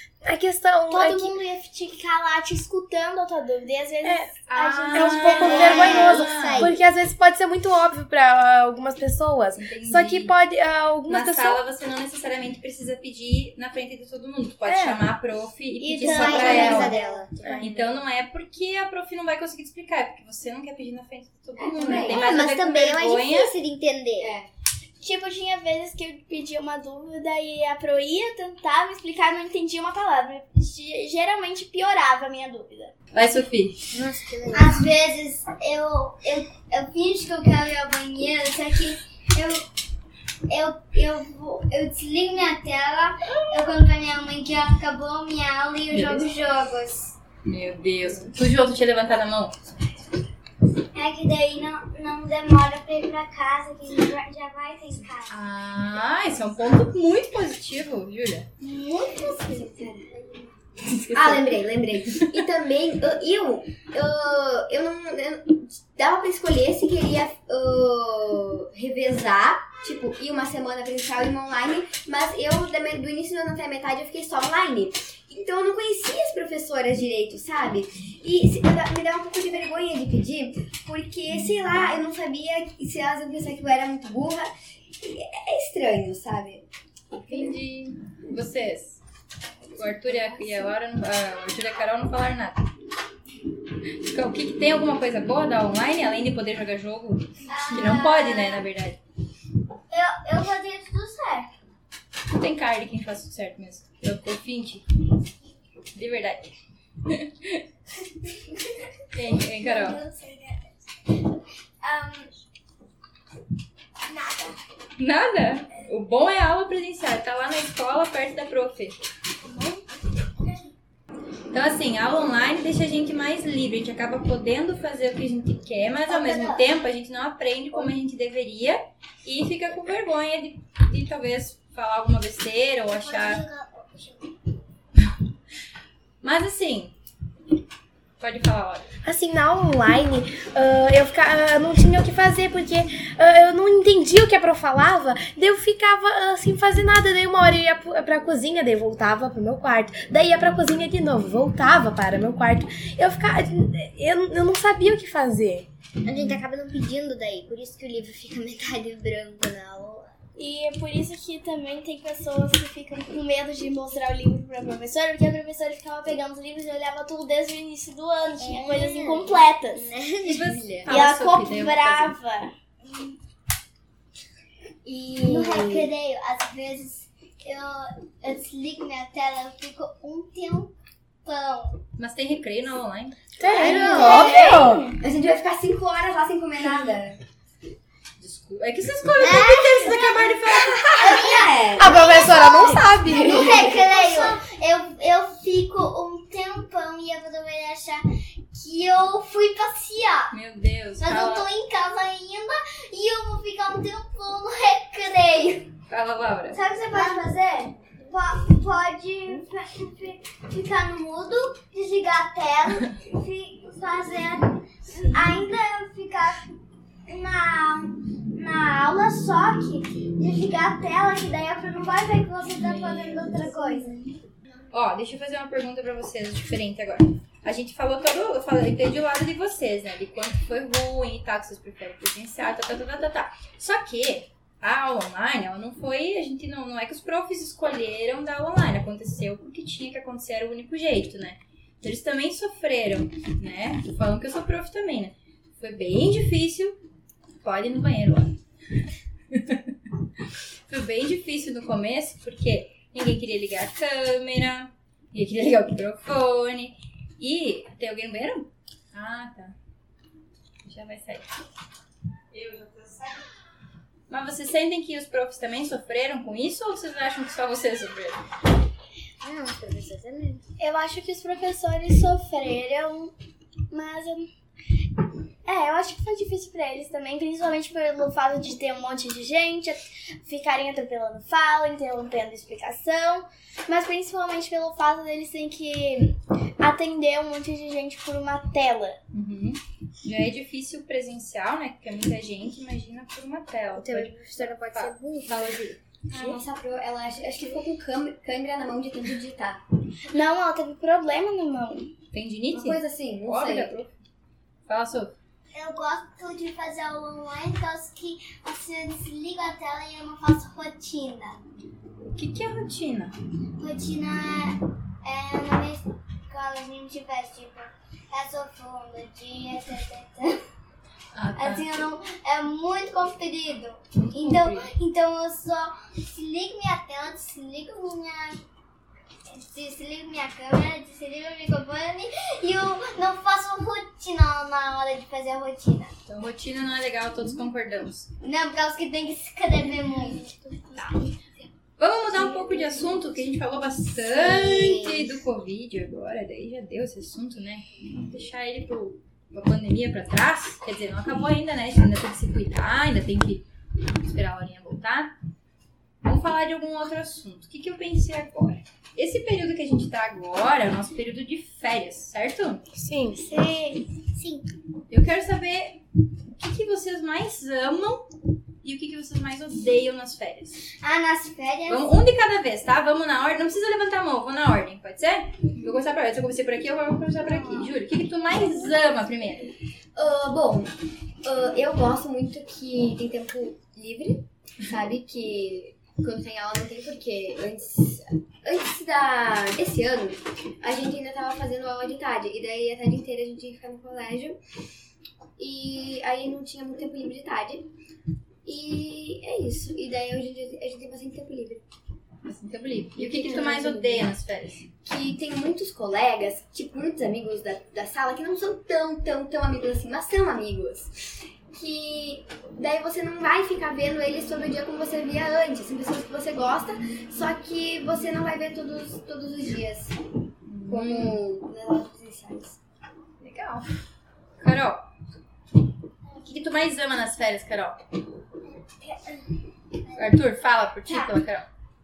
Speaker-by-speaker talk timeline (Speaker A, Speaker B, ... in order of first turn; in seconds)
Speaker A: 0.2-1.4, 4.0-4.3, 4.9-11.6, 14.6-15.1, 139.1-155.7, 183.4-184.9, 191.8-193.7, 362.8-363.3
Speaker B: 0.9-6.0, 15.8-16.8, 25.0-32.9, 160.4-169.9, 170.9-172.5, 183.8-184.9, 270.6-273.1, 273.7-274.3, 275.4-289.0, 300.1-301.9, 340.2-340.9
Speaker C: 4.5-6.7, 9.6-10.3, 11.1-17.0, 17.6-23.5, 33.1-33.9, 43.3-43.8, 45.9-46.3, 47.4-49.6, 55.3-58.5, 60.9-61.5, 62.1-62.4, 87.1-89.0, 89.8-92.6, 94.0-99.0, 102.3-104.8, 105.9-106.5, 107.1-107.6, 109.1-110.0, 115.0-119.0, 121.5-133.4, 136.2-136.9, 138.2-138.9, 156.1-156.4, 170.2-172.2, 182.0-183.7, 188.2-191.3, 200.3-201.5, 205.9-206.6, 222.6-223.5, 224.7-246.8, 247.4-248.4, 249.3-249.8, 250.7-259.5, 260.6-261.3, 262.3-263.0, 264.1-268.2, 289.1-295.8, 302.1-303.9, 304.7-305.1, 312.1-313.1, 321.1-321.6, 323.9-324.7, 336.1-338.1, 341.8-353.4, 354.0-355.1, 356.0-362.6, 364.9-365.8, 366.4-368.1, 368.6-370.6, 371.7-379.5, 402.3-404.7, 420.5-421.2, 423.2-423.7, 424.4-424.9, 426.2-427.8, 429.9-431.4
Speaker D: 5.4-6.6, 16.0-16.9, 34.5-39.6, 40.5-47.1, 50.9-55.4, 58.6-60.2, 97.5-98.7, 99.9-101.5, 109.3-111.2, 111.8-112.3, 114.1-114.6, 119.4-119.9, 120.4-120.7, 126.1-126.7, 132.9-134.4, 168.4-170.7, 172.8-173.2, 175.2-181.8, 183.6-184.8, 189.2-200.3, 201.0-205.7, 206.5-216.5, 217.1-224.1, 305.5-311.4, 313.6-320.4, 321.4-328.4, 329.3-335.9, 338.2-340.2, 363.3-364.5, 370.8-371.9, 428.6-429.2, 429.9-430.1, 430.9-431.1
Speaker E: 5.5-6.7, 16.0-17.6, 21.9-24.4, 33.9-34.8, 156.1-160.2, 168.7-169.3, 269.2-270.4, 293.8-295.6, 344.3-345.1
Speaker F: 16.2-17.3, 21.6-22.4, 24.2-24.5, 59.8-60.0, 61.1-86.6, 174.8-175.9, 183.5-184.1, 185.0-187.2, 191.0-192.0, 193.2-194.1, 296.1-299.6, 302.5-303.9, 379.9-380.7, 381.2-394.4, 395.4-397.7, 398.4-401.6, 402.9-404.1, 404.9-420.0, 420.6-422.6